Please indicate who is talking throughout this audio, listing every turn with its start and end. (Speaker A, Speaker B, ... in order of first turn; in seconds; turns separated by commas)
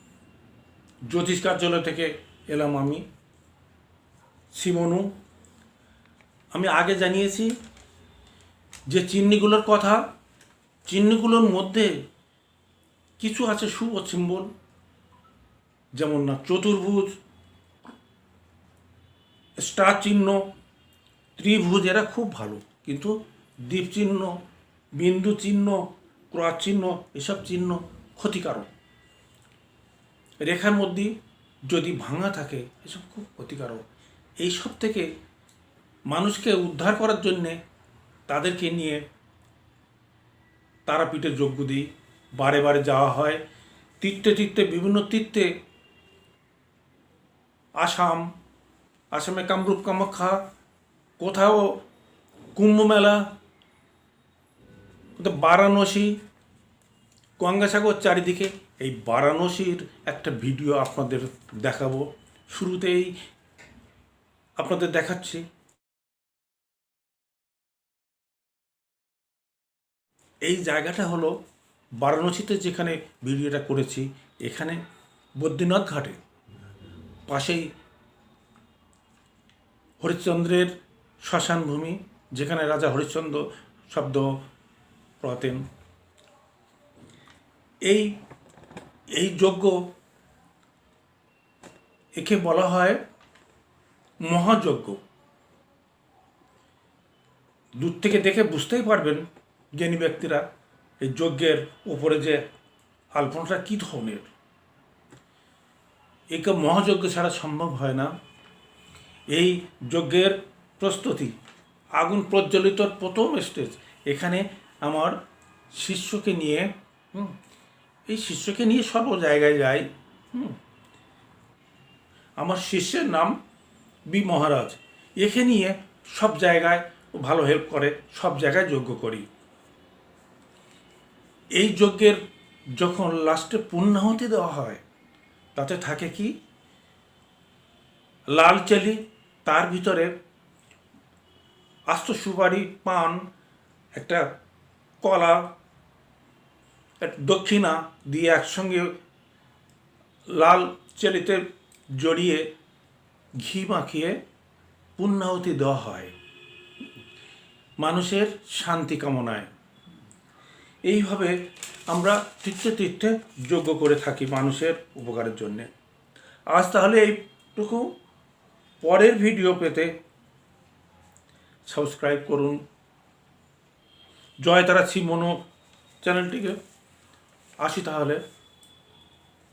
Speaker A: 1.1-3.0, Speaker A: 4.5-5.1, Speaker A: 6.5-7.5, Speaker A: 8.9-10.1, Speaker A: 10.9-12.0, Speaker A: 13.2-14.5, Speaker A: 15.9-17.1, Speaker A: 19.6-20.4, Speaker A: 21.4-24.4, Speaker A: 24.9-28.7, Speaker A: 30.4-31.1, Speaker A: 31.7-33.8, Speaker A: 34.4-35.1, Speaker A: 36.1-37.6, Speaker A: 38.3-39.0, Speaker A: 40.9-43.4, Speaker A: 44.0-45.5, Speaker A: 47.8-48.3, Speaker A: 49.1-50.5, Speaker A: 51.2-51.8, Speaker A: 52.5-53.3, Speaker A: 55.2-56.2, Speaker A: 57.4-63.2, Speaker A: 64.6-65.4, Speaker A: 70.4-71.4, Speaker A: 72.0-74.8, Speaker A: 75.4-76.2, Speaker A: 77.3-77.7, Speaker A: 80.0-84.4, Speaker A: 85.2-85.6, Speaker A: 87.8-88.2, Speaker A: 89.1-89.9, Speaker A: 92.2-93.0, Speaker A: 94.2-95.0, Speaker A: 97.8-100.5, Speaker A: 101.0-102.5, Speaker A: 103.1-104.3, Speaker A: 106.3-108.2, Speaker A: 109.3-111.3, Speaker A: 111.9-115.2, Speaker A: 115.7-117.3, Speaker A: 118.1-120.6, Speaker A: 122.4-123.4, Speaker A: 124.1-129.2, Speaker A: 131.5-132.2, Speaker A: 132.8-134.8, Speaker A: 135.5-136.3, Speaker A: 138.3-140.1, Speaker A: 141.9-143.2, Speaker A: 143.9-144.3, Speaker A: 145.0-145.5, Speaker A: 147.0-148.9, Speaker A: 150.3-152.5, Speaker A: 153.4-154.2, Speaker A: 155.0-156.1, Speaker A: 157.8-159.5, Speaker A: 160.8-165.7, Speaker A: 166.5-167.9, Speaker A: 168.8-169.9, Speaker A: 171.7-172.6, Speaker A: 174.4-175.4, Speaker A: 176.0-176.6, Speaker A: 177.6-178.2